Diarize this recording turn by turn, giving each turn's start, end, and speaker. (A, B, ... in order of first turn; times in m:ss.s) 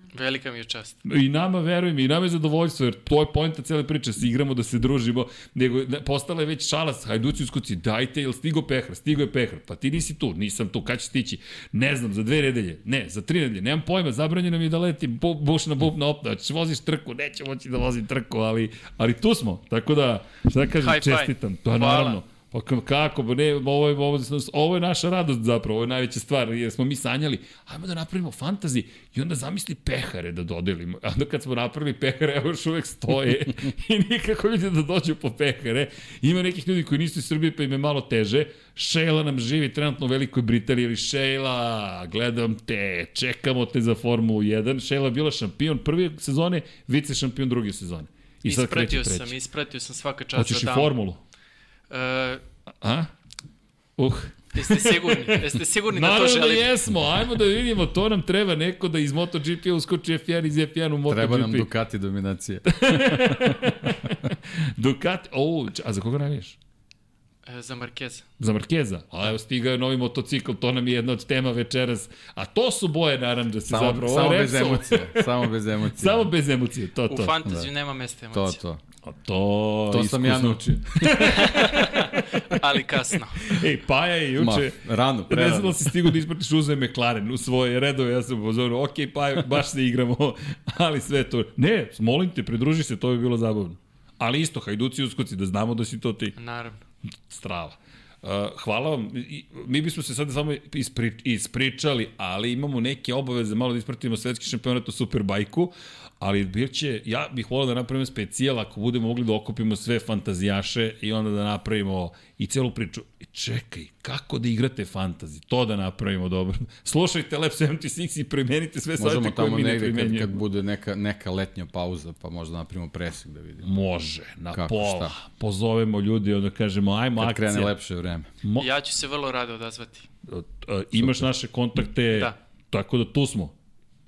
0:00.1-0:01.0 A
0:01.0-0:49.4 B
0:20.8-0:22.2 A
0:48.5-0:51.0 A
0:50.4-0:51.2 B
0:51.9-0:52.4 A
0:52.8-0:53.1 B
0:54.0-1:01.7 B
0:54.6-0:56.8 A
1:01.1-1:03.6 C
1:02.7-1:06.6 B
1:07.4-1:08.3 A
1:08.4-1:17.4 B
1:13.7-1:16.3 C
1:17.1-1:18.6 A
1:18.3-1:18.8 C
1:19.0-1:22.6 B
1:19.9-1:21.5 C
1:21.4-1:23.5 A
1:23.4-1:36.4 B
1:24.4-1:26.1 C
1:36.4-1:36.8 A
1:37.3-2:00.4 B
1:59.0-2:03.7 C
2:03.6-2:07.7 B
2:04.5-2:05.2 C
2:07.2-2:08.3 C
2:08.4-2:08.7 B
2:08.6-2:10.1 A
2:10.3-2:13.6 B
2:11.0-2:11.3 C